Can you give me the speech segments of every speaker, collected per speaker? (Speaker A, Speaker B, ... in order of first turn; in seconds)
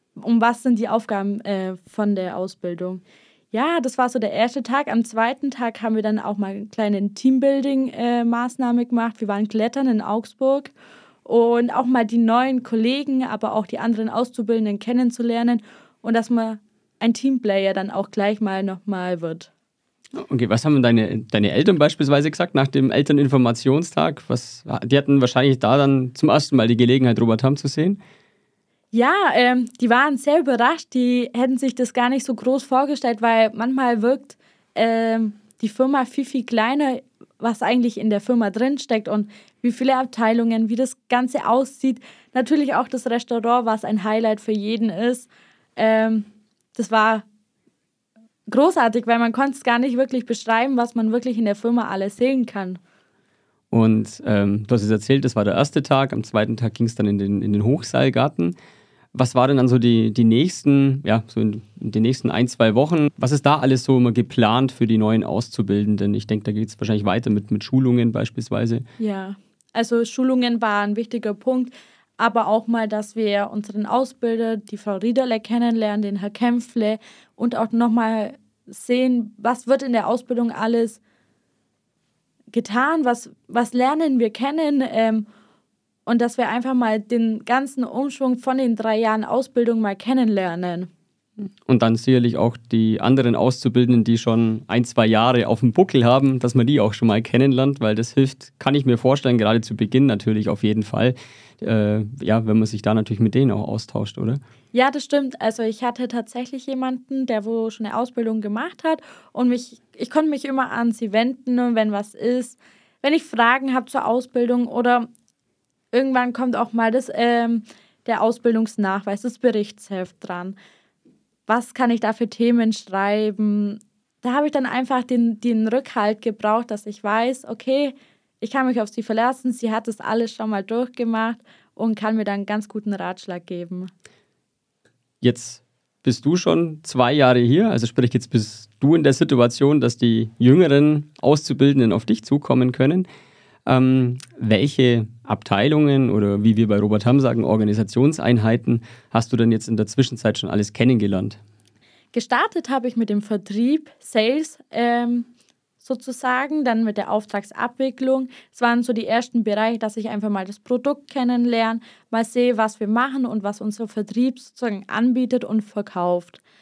Speaker A: 0.2-10.7, 11.3-19.5, 28.9-47.3, 48.5-52.8, 69.0-81.0, 82.5-85.3, 86.1-90.9, 104.7-115.1, 115.9-120.6, 121.5-133.9, 152.1-155.3, 155.8-166.4
Speaker B: 20.2-28.0, 53.7-58.5, 59.1-68.8, 91.7-104.4, 135.2-143.1, 143.7-151.4